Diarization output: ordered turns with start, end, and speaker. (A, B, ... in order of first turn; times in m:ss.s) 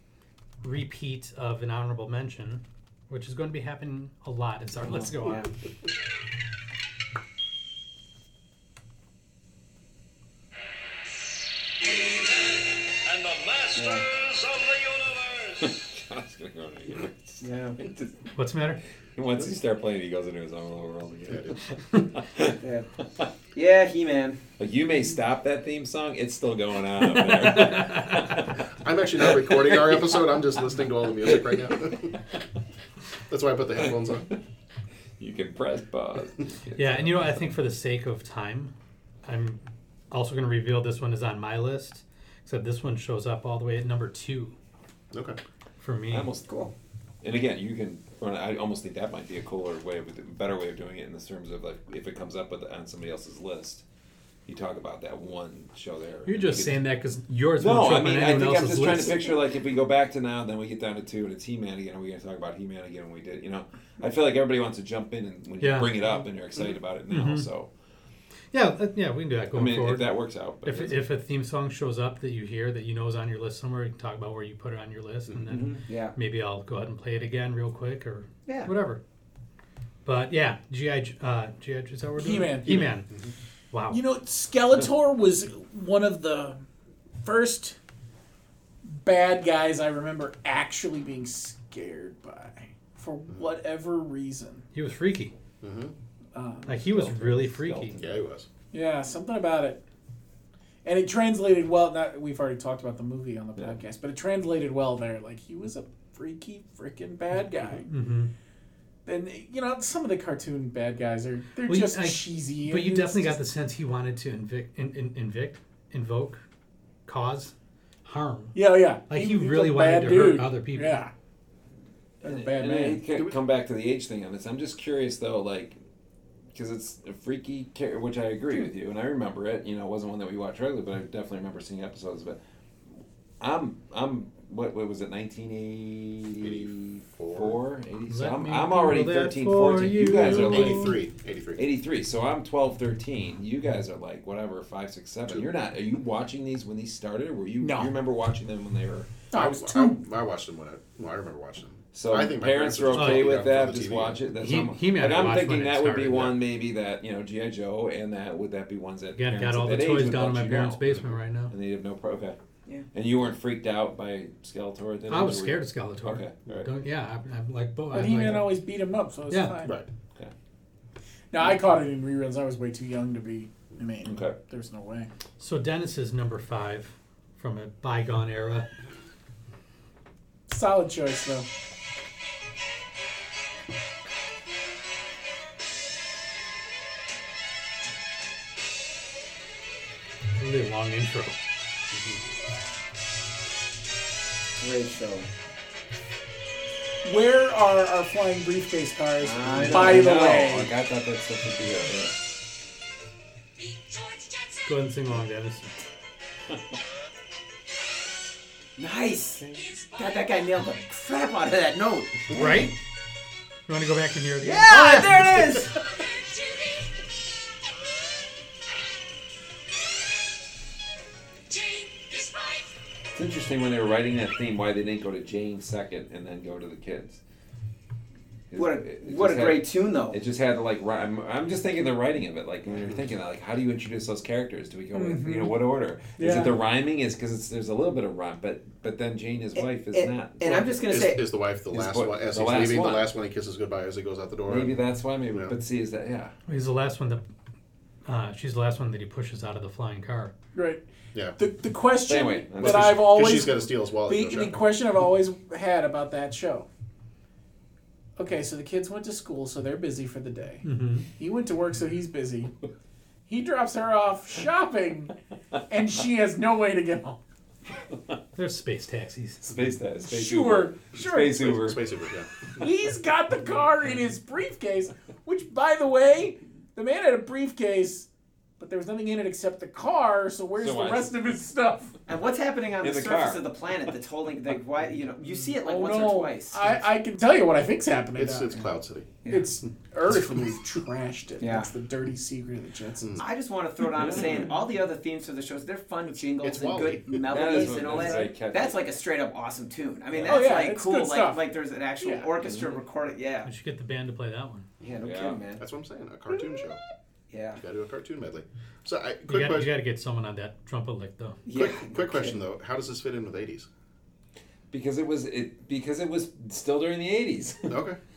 0:00.6-0:05.5 A
0:04.8-0:05.5 B
0:13.0-0:15.7 C
0:13.7-0:14.0 B
0:15.6-0:18.3 D
0:17.4-0:17.8 B
0:18.3-0:18.8 A
0:19.2-0:22.6 D
0:21.3-0:21.6 E
0:22.6-0:22.9 B
0:23.5-0:24.4 B
0:24.6-0:28.5 D
0:27.4-0:28.3 A
0:28.8-0:32.1 E
0:29.2-0:30.3 D
0:33.3-0:34.3 E
0:35.2-0:37.5 D
0:36.8-0:38.7 A
0:39.2-0:39.6 A
0:40.1-0:44.6 A
0:45.1-0:45.4 E
0:45.8-0:46.3 A
0:46.1-0:46.5 D
0:47.2-0:53.8 D
0:54.4-0:56.8 D
0:56.2-0:59.3 A
0:57.6-1:07.7 D
1:05.6-1:06.2 A
1:07.1-1:07.5 A
1:08.5-1:10.1 A
1:09.5-1:11.1 D
1:10.6-1:19.0 A
1:15.4-1:16.2 B
1:18.4-1:18.7 B
1:20.0-1:23.1 A
1:22.2-1:22.9 F
1:22.7-1:23.3 E
1:23.7-1:24.0 A
1:23.9-1:26.6 F
1:27.2-1:27.8 F
1:28.8-1:34.6 F
1:34.7-1:35.3 A
1:35.6-1:35.9 E
1:36.3-1:36.9 F
1:36.6-1:38.0 A
1:36.8-1:38.2 D
1:38.0-1:38.5 E
1:38.7-1:39.8 F
1:40.8-1:47.9 F
1:47.9-1:48.3 A
1:49.0-1:53.4 F
1:51.6-1:56.4 A
1:57.1-1:57.5 A
1:58.0-2:01.0 A
1:58.5-2:01.1 F
2:02.2-2:03.0 F
2:02.2-2:05.8 D
2:06.5-2:12.4 D
2:13.4-2:21.0 D
2:16.4-2:17.6 E
2:18.1-2:21.0 A
2:20.1-2:21.6 E
2:21.6-2:29.1 D
2:27.6-2:27.9 F
2:29.3-2:30.0 F
2:29.3-2:34.2 E
2:31.9-2:42.4 D
2:32.9-2:33.3 A
2:34.4-2:36.3 A
2:39.2-2:41.5 A
2:42.9-2:46.7 D
2:45.1-2:48.5 A
2:47.9-2:49.8 F
2:49.3-2:49.6 A
2:51.3-2:55.1 F
2:54.0-2:54.4 D
2:55.4-2:58.7 A
3:00.5-3:01.4 F
3:10.4-3:11.3 A
3:14.6-3:15.3 B
3:17.0-3:20.7 F
3:19.2-3:20.1 B
3:19.4-3:22.1 D
3:24.6-3:25.7 A
3:28.8-3:32.5 B
3:32.3-3:32.7 A
3:33.7-3:35.5 A
3:34.4-3:35.8 B
3:43.1-3:47.2 D
3:48.5-4:01.0 D
3:48.5-3:50.2 B
3:54.9-3:55.6 F
3:56.2-3:56.6 F
3:59.5-4:01.2 B
4:00.9-4:04.8 E
4:01.7-4:03.1 D
4:04.5-4:06.3 D
4:06.5-4:07.2 A
4:08.0-4:10.3 A
4:10.5-4:10.8 F
4:11.4-4:16.7 F
4:12.1-4:13.5 D
4:12.6-4:14.7 E
4:18.2-4:20.6 F
4:20.6-4:21.1 A
4:21.2-4:22.5 F
4:23.3-4:25.1 F
4:25.7-4:27.2 F
4:28.4-4:29.4 A
4:29.4-4:31.8 D
4:30.0-4:31.6 F
4:31.4-4:32.3 E
4:32.6-4:38.1 F
4:38.6-4:41.9 F
4:40.6-4:41.3 D
4:42.1-4:46.7 B
4:42.8-4:43.5 D
4:45.6-4:48.5 F
4:48.2-4:49.2 E
4:49.3-4:53.2 F
4:50.1-4:50.5 E
4:51.4-4:51.7 B
4:53.2-5:03.5 B
4:53.9-4:54.5 D
4:56.4-4:58.2 E
4:57.3-4:58.9 D
5:00.1-5:00.6 D
5:00.2-5:01.4 F
5:02.0-5:02.3 F
5:02.4-5:02.7 D
5:03.4-5:04.7 A
5:04.8-5:05.6 B
5:05.0-5:05.4 D
5:05.6-5:06.8 E
5:07.3-5:07.6 B
5:07.6-5:09.7 E
5:09.3-5:11.4 A
5:11.4-5:12.4 B
5:11.5-5:13.7 E
5:14.7-5:17.7 D
5:17.7-5:18.0 E